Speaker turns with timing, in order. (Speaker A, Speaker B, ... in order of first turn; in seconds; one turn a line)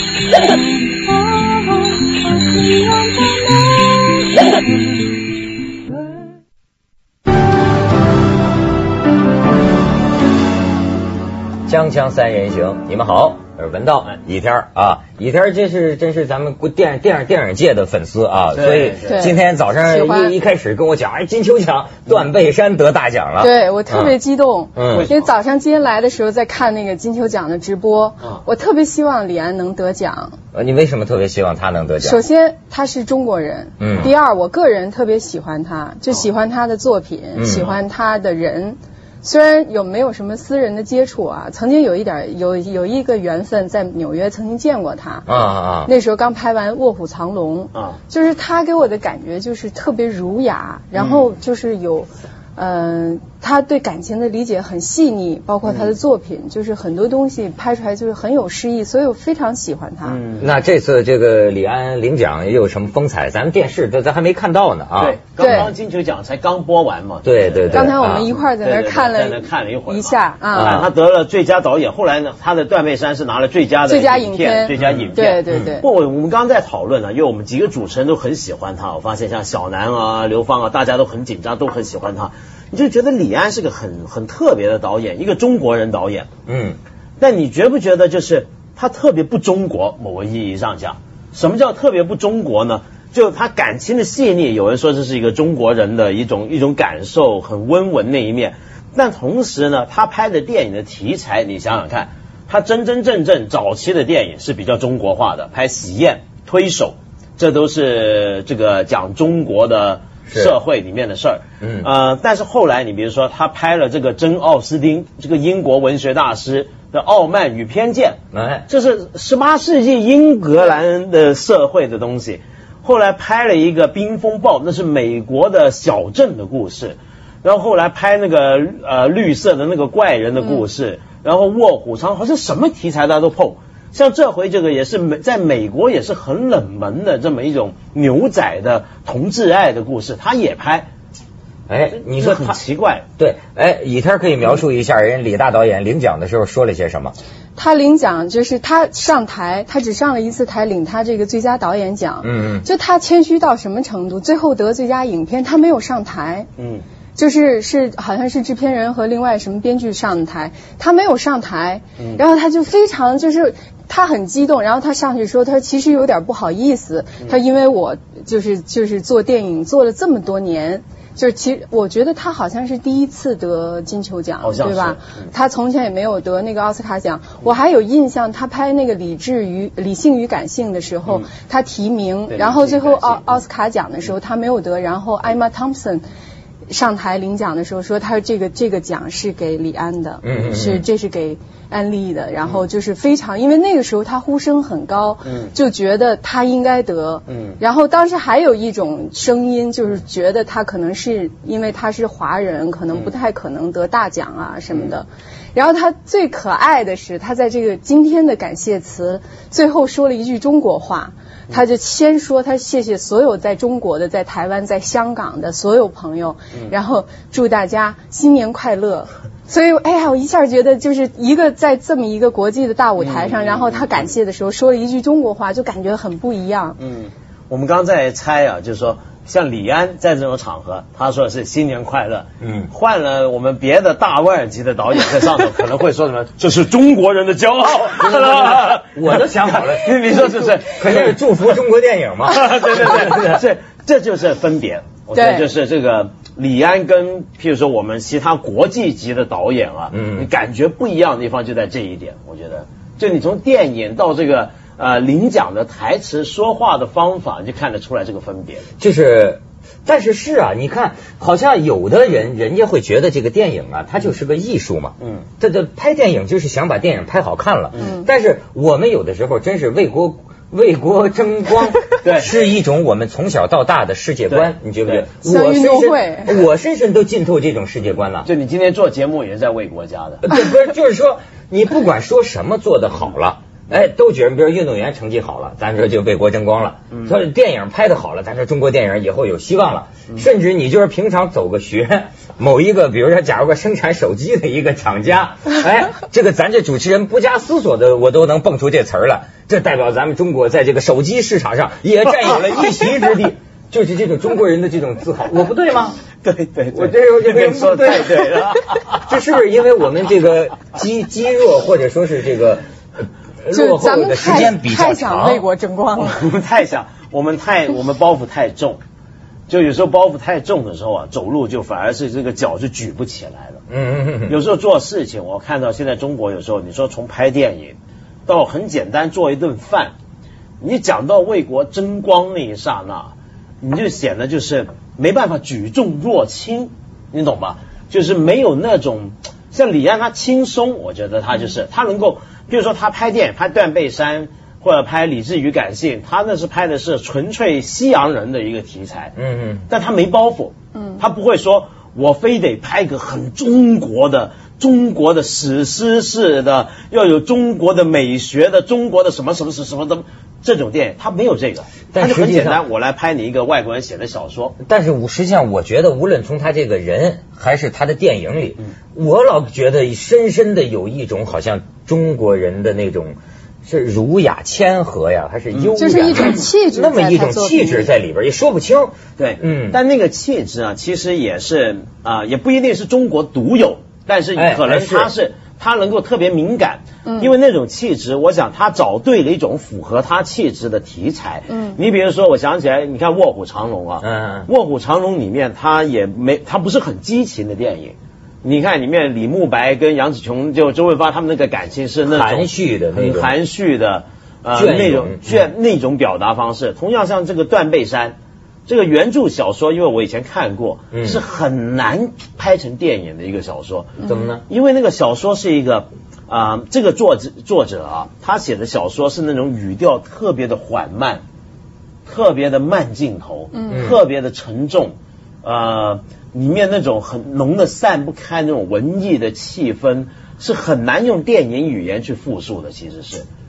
Speaker A: 0.3-5.2
Speaker B: 11.7-24.1
Speaker C: 18.5-19.3
Speaker D: 19.1-20.3
Speaker D: 23.4-30.4
Speaker B: 24.8-25.1
Speaker C: 24.9-25.3
Speaker B: 30.5-32.2
Speaker D: 32.0-45.3
Speaker B: 33.8-34.1
Speaker B: 37.4-37.8
Speaker B: 45.3-45.9
Speaker D: 45.8-60.2
Speaker C: 51.0-51.3
Speaker C: 55.6-56.0
Speaker C: 60.0-60.5
Speaker B: 60.4-65.7
Speaker C: 65.0-86.3
Speaker D: 65.4-65.7
Speaker B: 67.2-68.3
Speaker D: 67.7-70.9
Speaker B: 70.5-70.9
Speaker D: 73.9-75.9
Speaker B: 74.8-75.8
Speaker B: 86.5-86.8
Speaker C: 87.2-118.2
Speaker B: 110.3-110.5
Speaker B: 111.6-111.9
Speaker B: 118.3-118.7
Speaker C: 118.7-140.9
Speaker B: 141.7-142.6
Speaker C: 141.9-143.1
Speaker B: 143.2-147.2
Speaker D: 147.6-156.5
Speaker B: 152.2-152.7
Speaker C: 156.6-156.8
Speaker D: 157.2-186.0
Speaker C: 174.4-175.3
Speaker C: 182.3-183.4
Speaker D: 186.7-226.8
Speaker B: 190.2-190.8
Speaker C: 195.2-195.5
Speaker C: 197.3-197.6
Speaker C: 223.0-224.1
Speaker C: 226.8-241.2
Speaker B: 232.4-232.7
Speaker B: 238.0-243.4
Speaker C: 242.2-258.6
Speaker D: 245.1-245.5
Speaker B: 249.9-250.3
Speaker B: 258.8-278.3
Speaker C: 272.0-272.3
Speaker C: 274.3-275.1
Speaker D: 275.2-276.4
Speaker C: 278.2-280.2
Speaker B: 280.2-306.0
Speaker C: 306.2-309.0
Speaker B: 306.7-308.5
Speaker B: 309.0-315.4
Speaker D: 313.5-316.2
Speaker C: 316.0-318.8
Speaker C: 319.5-323.6
Speaker B: 323.7-324.4
Speaker C: 324.3-327.8
Speaker C: 328.3-329.9
Speaker C: 330.6-349.1
Speaker B: 349.2-349.7
Speaker C: 349.7-364.6
Speaker B: 361.9-362.6
Speaker B: 364.6-379.8
Speaker D: 375.8-377.9
Speaker C: 379.2-408.2
Speaker B: 384.4-385.1
Speaker D: 387.1-387.3
Speaker D: 391.5-391.8
Speaker B: 394.0-394.5
Speaker B: 402.1-403.3
Speaker B: 404.6-405.4
Speaker C: 408.7-421.2
Speaker B: 410.9-411.2
Speaker B: 414.0-414.4
Speaker C: 422.1-433.2
Speaker B: 423.7-424.0